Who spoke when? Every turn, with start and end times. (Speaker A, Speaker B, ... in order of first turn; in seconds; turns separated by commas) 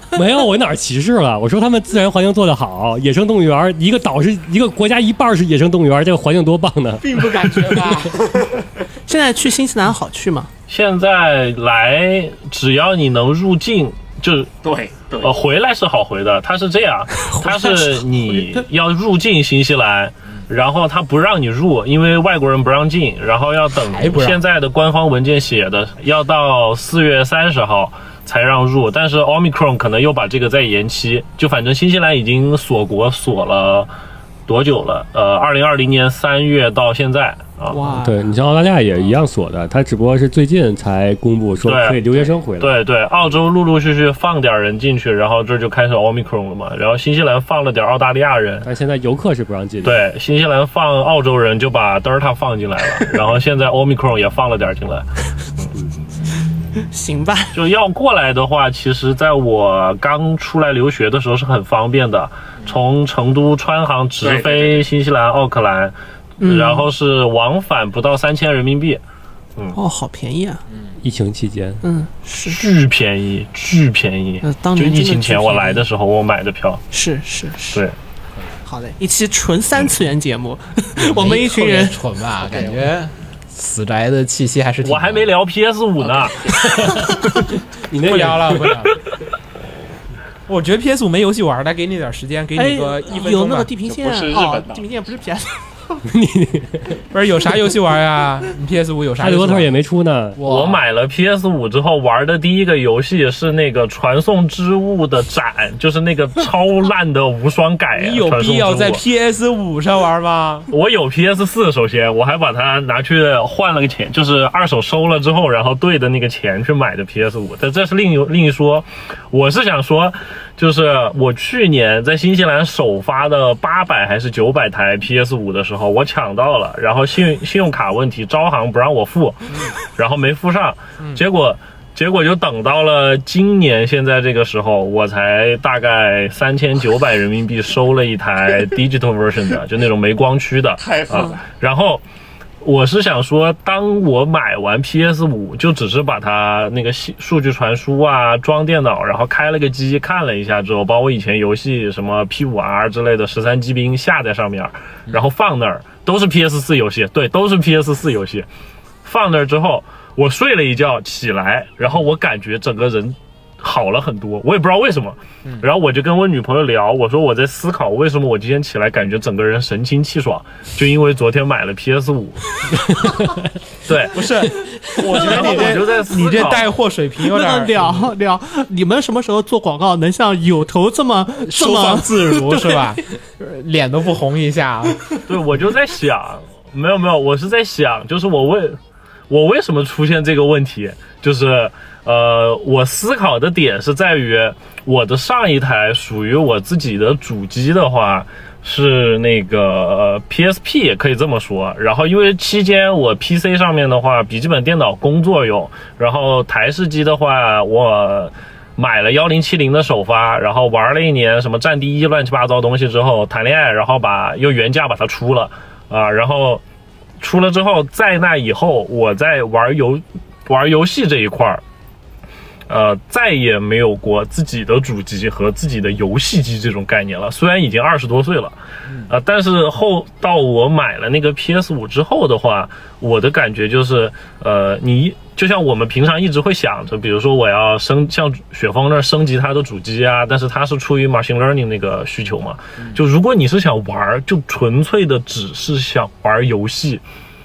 Speaker A: 0.1-7.3, Speaker B: 7.2-8.2, Speaker C: 7.2-7.8, Speaker C: 9.1-10.5, Speaker D: 10.7-14.5, Speaker E: 14.6-15.4, Speaker D: 15.2-33.9, Speaker C: 17.3-18.0, Speaker B: 23.8-24.4, Speaker D: 34.5-37.9, Speaker C: 37.7-38.3, Speaker A: 38.0-42.8, Speaker D: 41.6-48.7, Speaker A: 48.6-50.0, Speaker D: 49.8-55.7, Speaker C: 56.8-57.5, Speaker D: 57.5-69.0, Speaker E: 64.2-64.8, Speaker C: 66.4-66.9, Speaker C: 69.8-70.6, Speaker A: 71.0-71.8, Speaker C: 71.8-72.6, Speaker D: 72.5-76.8, Speaker C: 74.4-75.8, Speaker C: 76.9-77.8, Speaker C: 78.7-82.0, Speaker B: 81.0-85.3, Speaker D: 84.8-86.5, Speaker A: 86.5-88.9, Speaker C: 86.8-87.4, Speaker B: 88.0-89.0, Speaker B: 90.5-93.7, Speaker C: 92.6-96.0, Speaker E: 93.9-94.9, Speaker A: 96.1-97.0, Speaker B: 97.1-99.7, Speaker A: 99.2-100.4, Speaker B: 100.4-100.8, Speaker D: 100.5-109.0, Speaker B: 108.0-110.7, Speaker D: 110.7-142.0, Speaker E: 140.8-141.4, Speaker D: 142.6-158.5, Speaker D: 159.1-172.5, Speaker A: 172.8-173.5, Speaker D: 173.9-174.2, Speaker B: 174.1-178.1, Speaker D: 175.1-176.7, Speaker C: 177.3-183.0, Speaker B: 181.4-185.1, Speaker D: 185.3-188.8, Speaker D: 189.3-216.6, Speaker D: 217.2-221.6, Speaker D: 222.7-247.0